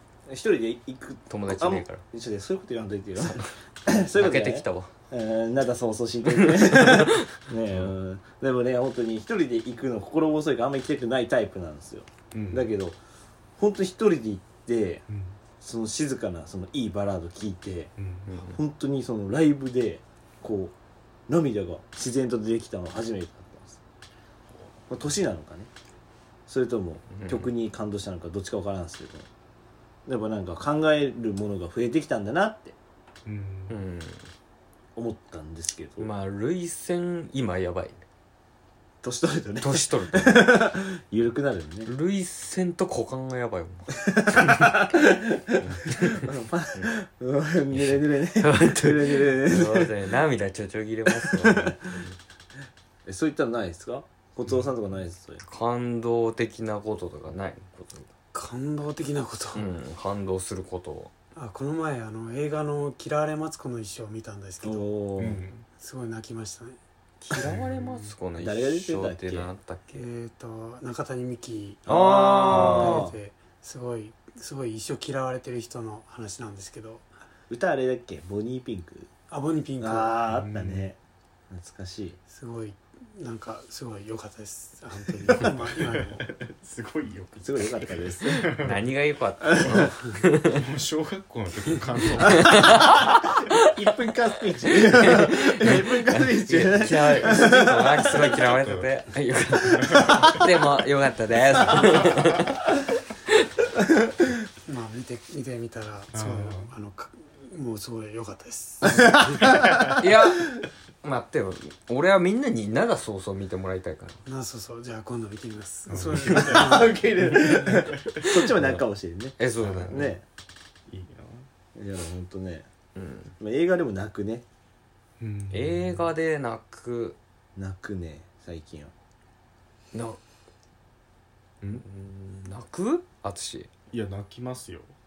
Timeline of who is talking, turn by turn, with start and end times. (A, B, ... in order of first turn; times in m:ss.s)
0:00.3-0:13.0 A
0:01.3-0:02.0 B
0:04.1-0:04.9 B
0:06.3-0:07.3 B
0:07.7-0:07.9 C
0:12.3-0:12.7 C
0:13.6-0:15.0 A
0:15.1-0:15.4 C
0:15.6-0:17.9 A
0:18.0-0:18.4 C
0:18.3-0:18.6 B
0:18.4-0:20.7 A
0:21.3-0:23.8 A
0:24.9-0:25.7 A
0:26.5-0:29.3 A
0:27.1-0:27.5 B
0:30.0-0:32.8 A
0:33.2-0:33.8 C
0:33.7-0:34.2 B
0:35.0-0:36.1 A
0:36.0-0:38.0 B
0:39.0-0:41.9 A
0:39.6-0:40.6 B
0:41.8-0:44.8 B
0:44.1-0:49.9 A
0:45.8-0:46.3 B
0:47.7-0:52.2 B
0:51.1-0:51.7 A
0:53.0-0:55.4 A
0:55.4-0:58.1 B
0:58.3-0:59.6 D
0:59.5-1:01.1 B
1:01.3-1:04.9 D
1:04.6-1:05.4 A
1:05.2-1:05.6 C
1:05.8-1:06.8 D
1:07.2-1:10.1 B
1:07.4-1:08.1 C
1:08.4-1:09.5 A
1:09.9-1:11.8 D
1:11.8-1:13.1 B
1:11.8-1:13.1 A
1:12.4-1:12.8 C
1:12.8-1:17.0 D
1:17.5-1:19.1 A
1:19.3-1:20.2 D
1:19.8-1:21.0 A
1:20.3-1:20.9 C
1:21.5-1:22.2 A
1:22.3-1:26.2 D
1:25.3-1:28.8 C
1:27.4-1:28.5 A
1:28.6-1:30.6 B
1:29.5-1:29.9 A
1:30.5-1:33.0 C
1:32.2-1:33.6 B
1:33.6-1:38.4 A
1:34.8-1:42.6 B
1:38.5-1:38.9 C
1:39.6-1:40.4 C
1:44.6-1:49.6 D
1:46.1-1:46.7 C
1:48.8-1:50.0 A
1:49.5-1:50.0 C
1:50.0-1:50.5 B
1:51.0-1:54.2 B
1:54.2-1:57.1 D
1:55.9-1:56.8 C
1:56.3-2:00.2 A
1:57.4-1:58.2 C
1:59.4-2:00.2 B
1:59.6-2:00.1 C
2:00.9-2:01.5 C
2:01.8-2:02.7 A
2:03.0-2:03.3 B
2:03.4-2:04.4 A
2:05.2-2:06.1 C
2:05.5-2:07.2 B
2:07.6-2:08.9 A
2:09.9-2:10.2 B
2:11.8-2:13.7 B
2:13.9-2:14.9 C